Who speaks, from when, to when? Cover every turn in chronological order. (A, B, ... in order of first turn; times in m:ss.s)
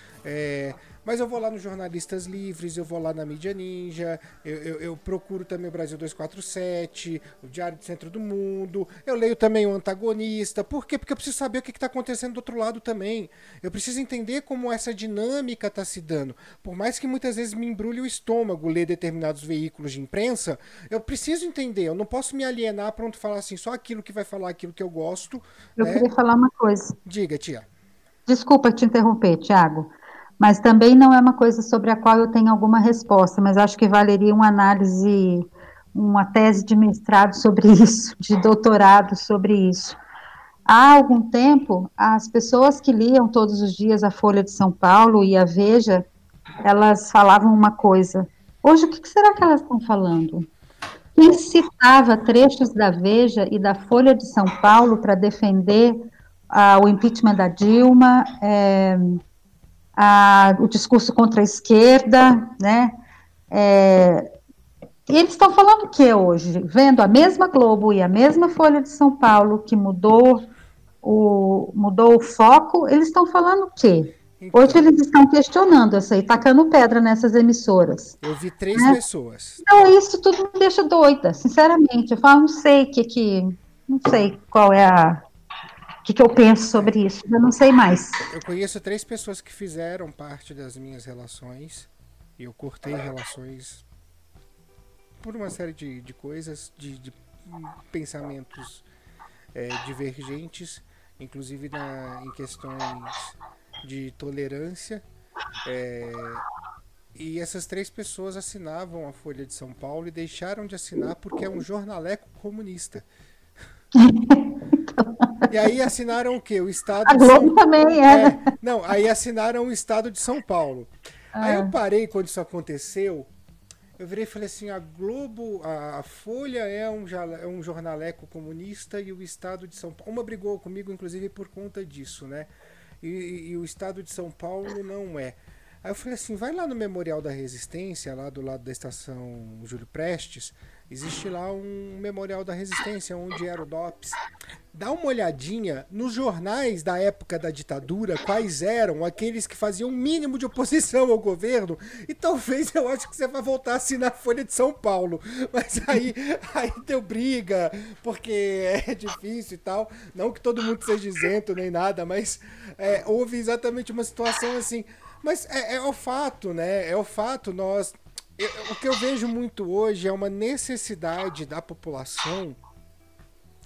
0:00.2-0:26.1 A
0:25.8-0:26.9 B
0:27.0-0:27.7 A
0:28.3-0:40.0 B
0:40.7-0:46.0 B
0:46.6-0:50.5 B
0:51.2-0:56.0 B
0:56.5-0:59.2 B
1:00.0-1:02.9 B
1:03.5-1:04.2 B
1:05.1-1:10.5 B
1:11.0-1:18.1 B
1:14.4-1:14.8 A
1:18.2-1:19.9 A
1:19.6-1:25.2 B
1:26.0-1:28.2 B
1:28.3-1:33.8 A
1:35.2-1:38.8 A
1:39.5-1:45.0 A
1:45.6-1:46.4 A
1:47.1-1:53.0 A
1:53.9-1:55.3 B
1:55.5-2:00.9 A
1:57.0-1:58.4 B
2:01.4-2:01.7 B
2:01.4-2:03.3 A
2:04.0-2:12.5 A
2:13.0-2:24.2 A
2:24.7-2:52.6 A